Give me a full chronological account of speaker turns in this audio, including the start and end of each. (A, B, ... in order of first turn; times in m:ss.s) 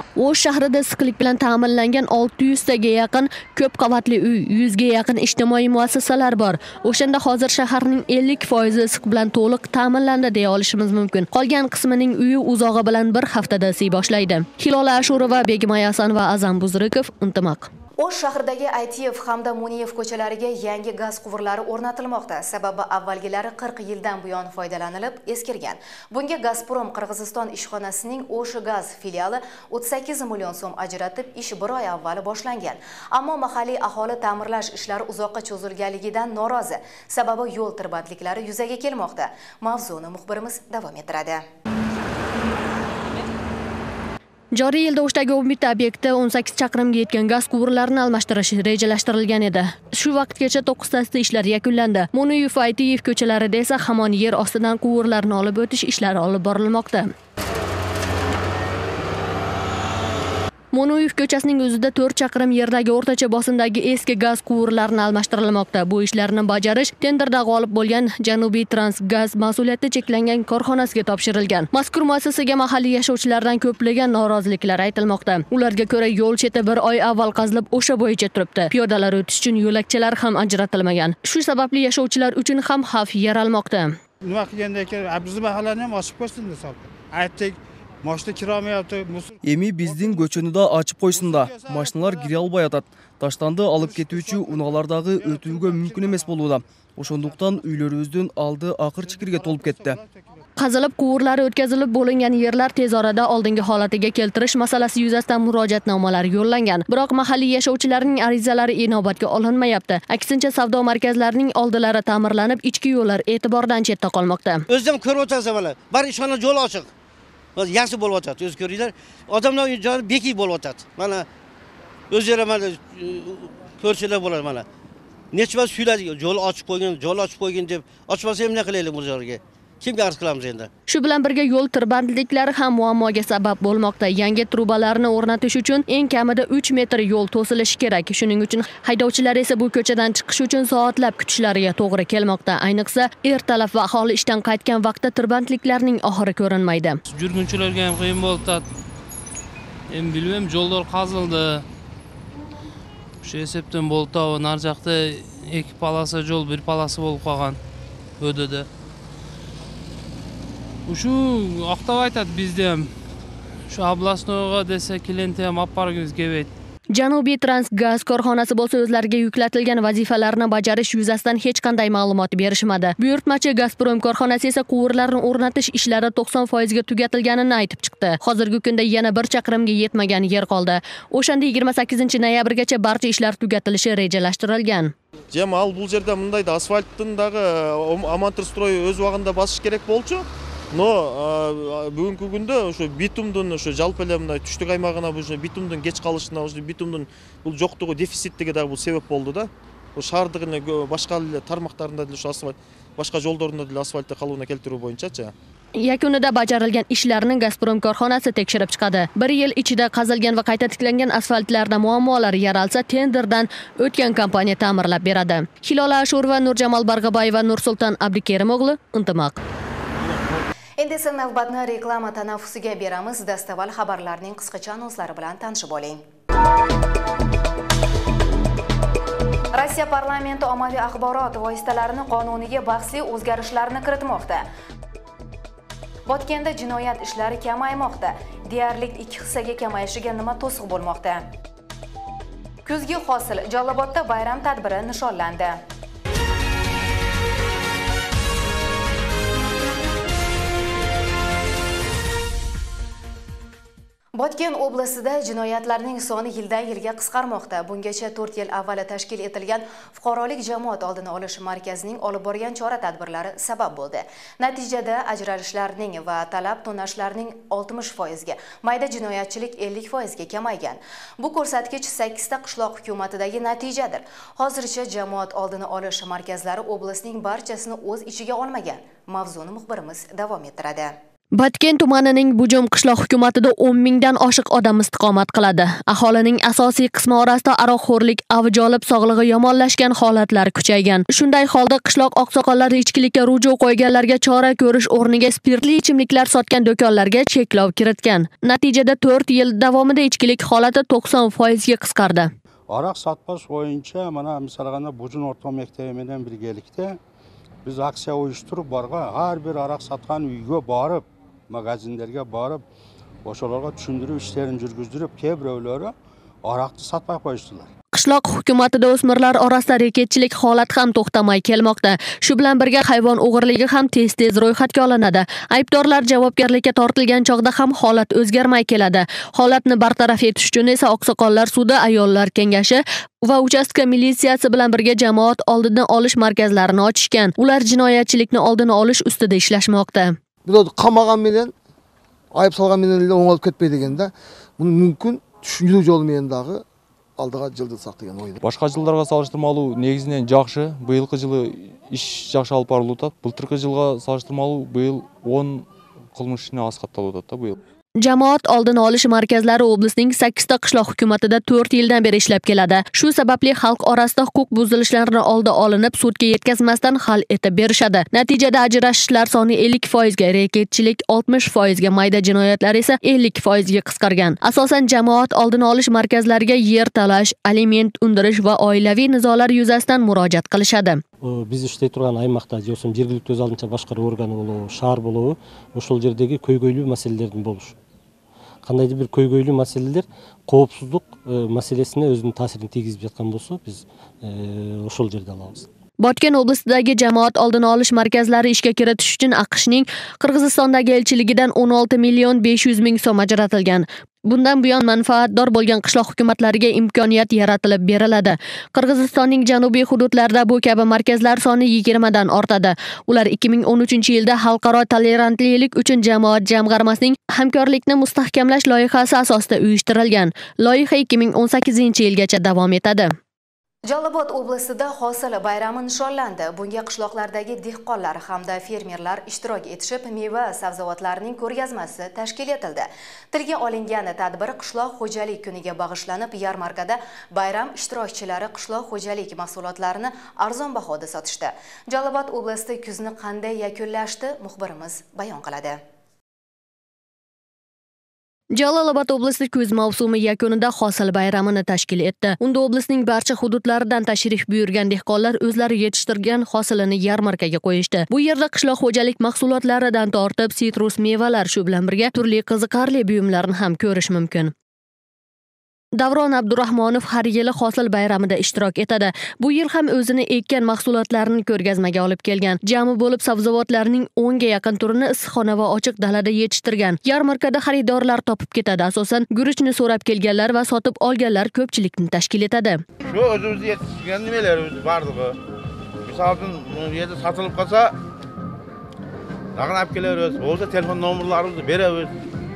0:00.2-0:17.7 A
0:18.0-0:41.4 B
0:44.5-0:57.1 A
1:00.7-1:24.0 A
1:24.3-1:29.3 C
1:29.4-1:40.0 D
1:40.6-1:54.6 A
1:54.7-1:56.9 E
1:57.6-2:01.3 E
2:02.1-2:04.6 E
2:05.3-2:10.7 E
2:10.9-2:27.0 A
2:27.1-2:28.6 F
2:29.9-2:31.6 F
2:33.2-2:37.6 F
2:38.2-2:38.7 F
2:40.8-2:42.9 F
2:43.7-2:46.5 F
2:46.9-3:04.9 A
3:05.3-3:25.3 G
3:25.8-3:39.4 A
3:40.8-3:46.0 B
3:49.5-3:54.4 B
3:56.1-4:01.2 B
4:02.6-4:05.6 B
4:14.1-4:40.9 B
4:41.3-5:02.3 A
5:02.7-5:07.0 H
5:07.6-5:12.6 H
5:13.2-5:17.7 H
5:17.9-5:40.1 A
5:40.4-5:41.5 I
5:42.3-5:46.6 I
5:47.2-5:48.4 I
5:48.4-5:57.6 J
5:58.0-6:21.0 A
6:21.2-6:27.7 K
6:28.6-6:35.7 K
6:36.0-7:03.1 A
7:03.9-7:25.8 B
7:28.5-7:44.5 A
7:46.0-8:02.8 A
8:03.0-8:05.4 L
8:06.0-8:07.9 L
8:09.6-8:12.1 L